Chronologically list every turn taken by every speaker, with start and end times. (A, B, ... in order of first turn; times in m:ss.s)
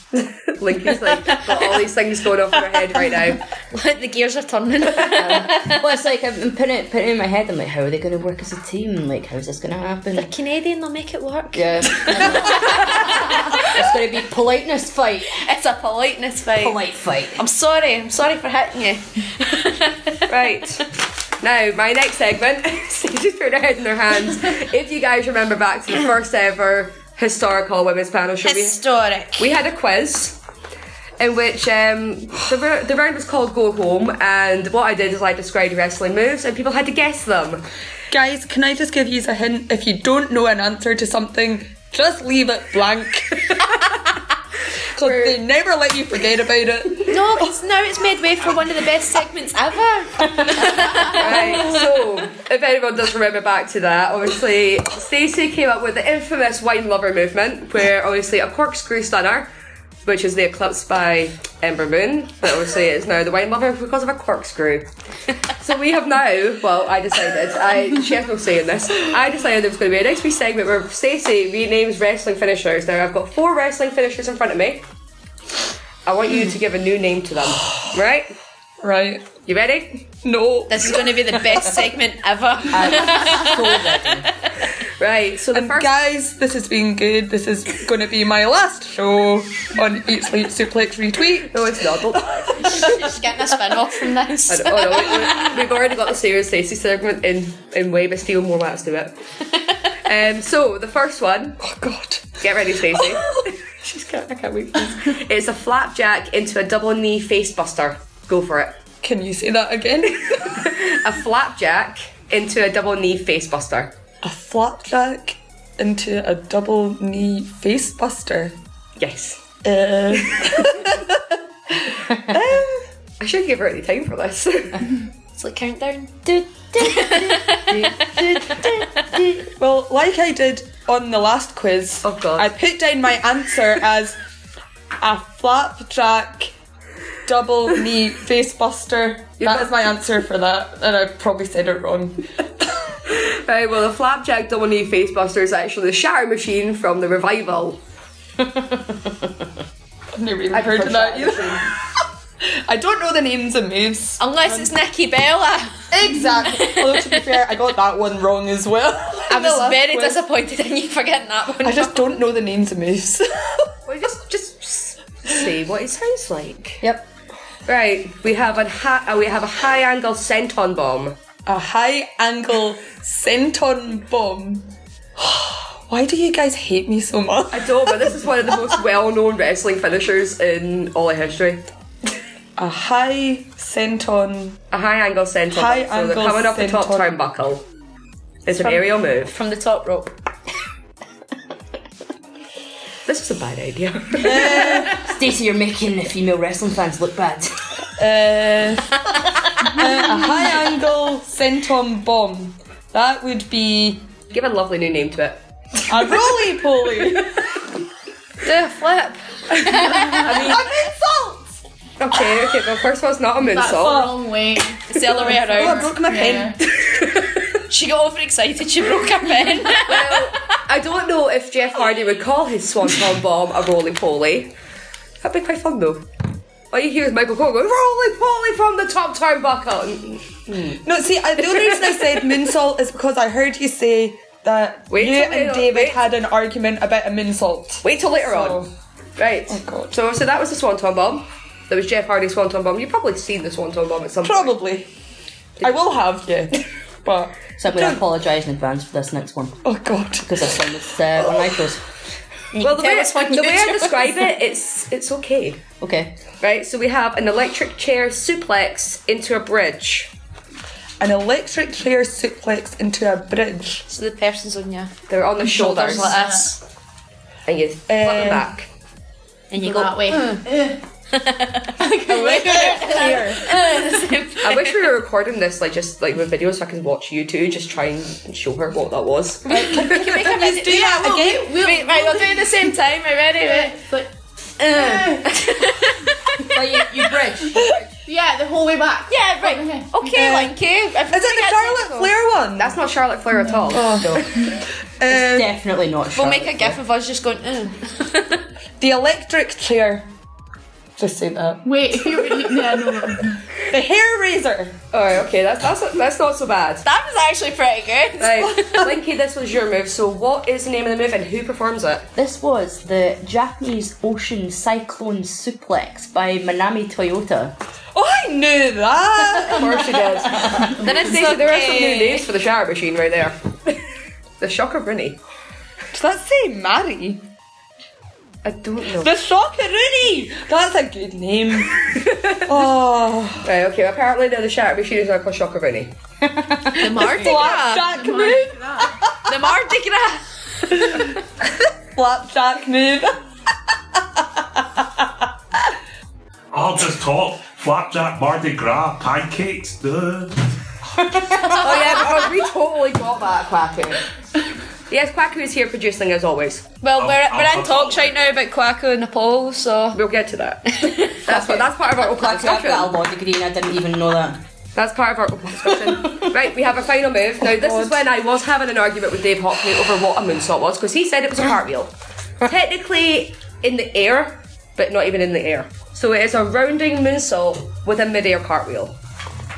0:00.1-0:03.4 A
0:01.2-0:01.8 B
0:03.7-0:05.9 B
0:05.1-0:10.3 C
0:10.1-0:13.4 B
0:11.5-0:15.4 C
0:15.4-0:16.8 B
0:16.6-0:17.4 C
0:17.4-0:20.6 B
0:20.3-0:20.8 A
0:21.4-0:28.8 A
0:28.4-0:29.5 B
0:29.4-0:30.4 A
0:31.2-0:37.6 A
0:38.1-0:43.9 D
0:44.9-0:47.5 D
0:45.0-0:45.4 A
0:47.1-0:51.6 B
0:51.1-0:59.5 A
1:00.0-1:04.9 A
1:05.6-1:14.8 A
1:16.0-1:18.3 A
1:18.8-1:19.3 D
1:19.4-1:20.0 A
1:20.2-1:21.7 D
1:20.7-1:24.1 B
1:22.7-1:24.3 C
1:25.0-1:25.9 A
1:25.5-1:31.7 D
1:31.5-1:32.9 A
1:32.4-1:32.9 D
1:32.7-1:35.2 B
1:34.5-1:39.1 A
1:40.0-1:41.6 A
1:41.6-1:42.3 D
1:42.4-1:48.8 A
1:42.9-1:43.4 D
1:49.0-1:50.5 D
1:50.4-1:53.9 A
1:54.2-1:58.6 D
1:59.0-1:59.4 A
1:59.6-2:01.2 D
2:00.1-2:00.8 A
2:01.8-2:02.8 D
2:03.2-2:04.9 A
2:05.4-2:09.0 B
2:06.7-2:09.4 C
2:09.6-2:14.1 D
2:12.0-2:12.5 A
2:15.0-2:16.5 D
2:17.2-2:22.2 D
2:19.4-2:19.7 A
2:23.1-2:27.8 A
2:30.1-2:31.7 D
2:30.5-2:31.7 A
2:32.7-2:34.7 D
2:34.2-2:35.9 B
2:35.9-2:40.2 D
2:36.5-2:37.2 B
2:39.3-2:42.0 B
2:41.6-2:43.7 D
2:43.9-2:46.8 A
2:47.7-2:51.2 A
2:51.4-2:58.0 D
2:57.5-3:01.6 A
3:02.6-3:04.6 D
3:04.7-3:07.6 A
3:05.5-3:07.1 D
3:08.4-3:09.4 A
3:08.5-3:10.1 B
3:13.0-3:14.8 A
3:14.2-3:15.0 D
3:14.8-3:17.6 C
3:18.0-3:18.9 D
3:19.7-3:24.1 D
3:24.3-3:25.4 A
3:25.9-3:27.4 D
3:28.4-3:30.2 B
3:29.6-3:31.6 D
3:30.2-3:30.6 A
3:32.0-3:34.1 A
3:33.4-3:36.6 E
3:33.8-3:34.1 D
3:34.9-3:36.0 B
3:35.1-3:36.6 D
3:36.8-3:37.4 A
3:37.7-3:40.3 B
3:39.8-3:44.5 A
3:45.2-3:46.1 A
3:46.7-3:50.8 A
3:50.8-3:58.7 D
3:51.4-3:52.3 A
3:54.9-3:56.0 A
3:57.8-3:58.6 A
3:59.2-4:04.6 A
3:59.5-3:59.9 D
4:04.2-4:04.9 D
4:05.6-4:08.0 D
4:07.6-4:09.6 C
4:09.6-4:10.6 D
4:10.2-4:11.8 C
4:12.5-4:14.1 B
4:12.6-4:15.6 A
4:15.8-4:16.1 C
4:16.4-4:20.1 A
4:21.0-4:23.8 D
4:23.9-4:24.9 B
4:25.1-4:26.1 A
4:25.6-4:26.6 B
4:25.6-4:26.6 E
4:27.5-4:28.7 A
4:27.9-4:28.5 D
4:29.5-4:30.5 B
4:29.6-4:30.8 E
4:31.1-4:34.8 B
4:31.8-4:33.3 E
4:32.1-4:33.4 D
4:34.4-4:40.1 A
4:39.5-4:43.8 B
4:39.6-4:41.5 D
4:40.5-4:42.8 E
4:43.4-4:44.1 E
4:44.6-4:46.6 B
4:44.7-4:45.3 E
4:46.5-4:47.9 C
4:48.0-4:50.2 E
4:49.1-4:52.1 B
4:50.1-4:50.5 D
4:51.1-4:52.8 D
4:52.6-4:54.1 A
4:53.4-4:53.8 E
4:53.7-4:54.2 D
4:54.0-4:54.3 C
4:55.0-4:55.5 D
4:55.0-4:56.8 C
4:56.1-4:58.4 B
4:58.8-5:00.0 D
5:01.0-5:02.7 D
5:01.6-5:03.4 E
5:03.7-5:04.8 D
5:04.9-5:06.8 A
5:06.8-5:08.8 B
5:08.2-5:12.1 A
5:12.2-5:17.6 C
5:17.9-5:20.7 D
5:19.5-5:23.8 A
5:20.8-5:22.3 B
5:24.4-5:25.2 A
5:25.9-5:27.2 D
5:28.4-5:29.1 A
5:28.9-5:31.9 D
5:31.9-5:32.7 A
5:32.4-5:33.5 D
5:33.4-5:35.9 A
5:36.8-5:37.9 B
5:36.8-5:39.2 D
5:37.0-5:39.0 E
5:39.3-5:41.1 B
5:41.9-5:43.1 D
5:44.2-5:45.0 D
5:46.5-5:50.5 F
5:51.1-5:51.6 C
5:51.6-5:54.0 A
5:54.9-5:56.7 A
5:56.8-6:00.0 B
5:57.0-5:58.2 F
5:59.9-6:03.0 A
6:00.8-6:01.5 B
6:01.6-6:04.4 C
6:04.7-6:19.0 A